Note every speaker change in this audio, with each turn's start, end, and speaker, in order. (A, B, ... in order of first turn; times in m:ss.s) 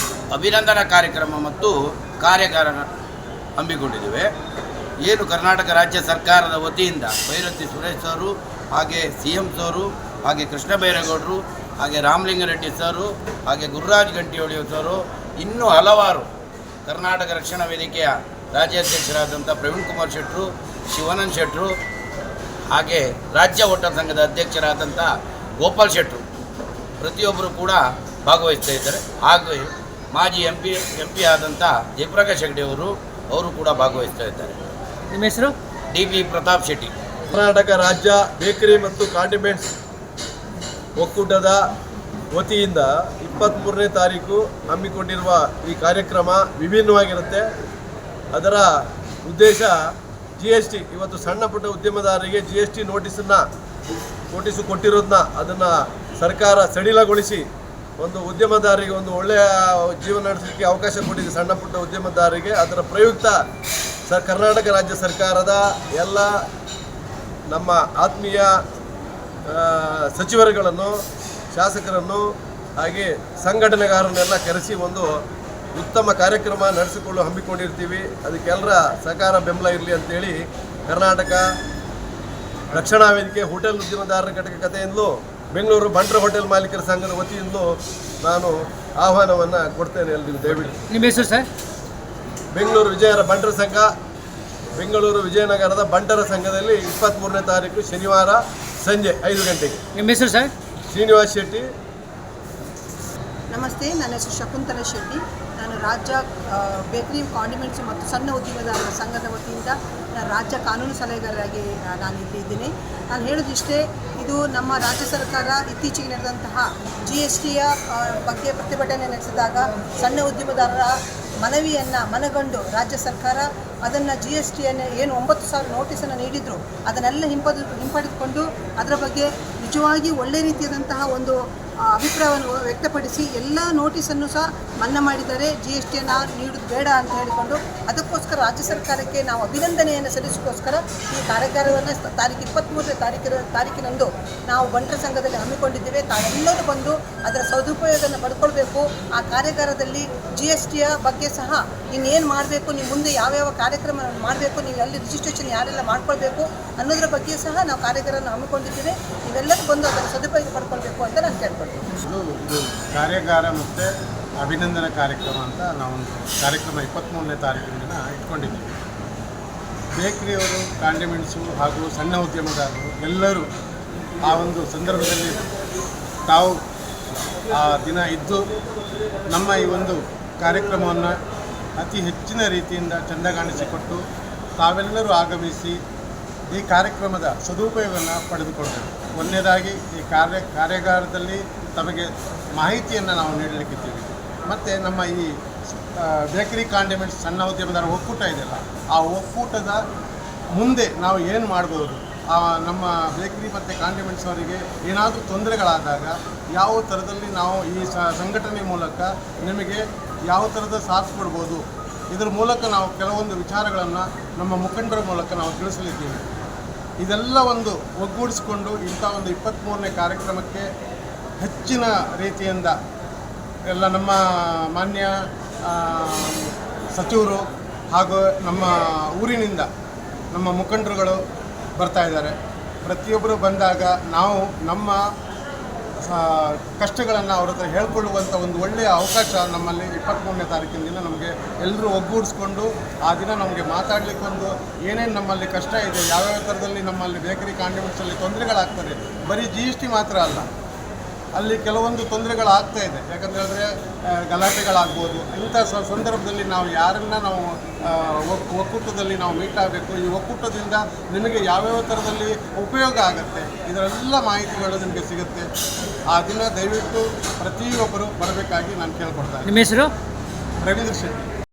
0:00.3-0:02.9 A
0:03.6-0:04.3 A
0:05.0-0:16.3 A
0:16.9-0:21.7 A
0:22.7-0:26.2 A
0:27.0-0:34.6 A
0:35.1-0:35.6 B
0:35.9-0:36.9 A
0:37.3-0:39.7 C
0:41.0-0:41.6 C
0:42.3-0:47.4 C
0:48.3-0:48.7 C
0:49.2-0:49.8 C
0:50.4-0:53.4 C
0:54.3-0:57.4 C
0:58.0-1:03.4 C
1:04.1-1:06.3 C
1:07.5-1:08.6 C
1:09.5-1:11.0 C
1:11.5-1:15.1 C
1:15.8-1:21.5 C
1:22.7-1:27.7 C
1:28.2-1:30.8 C
1:30.9-1:31.5 B
1:32.5-1:33.9 C
1:34.8-1:39.8 C
1:40.0-1:40.5 B
1:40.9-1:41.7 C
1:43.5-2:11.4 D
2:11.9-2:41.9 D
2:42.0-2:48.8 E
2:50.0-2:53.5 E
2:54.2-2:55.4 E
2:56.3-2:56.6 E
2:57.5-2:58.4 E
2:59.3-3:01.2 E
3:01.8-3:04.0 E
3:04.6-3:05.8 E
3:06.5-3:15.4 E
3:16.0-3:19.8 E
3:20.5-3:36.2 E
3:37.0-3:40.7 E
3:41.4-3:42.8 E
3:43.7-3:49.7 E
3:50.3-3:51.2 E
3:51.8-3:55.1 E
3:56.0-4:10.5 E
4:11.4-4:25.5 E
4:26.1-4:29.6 E
4:29.5-4:29.9 B
4:30.6-4:31.3 E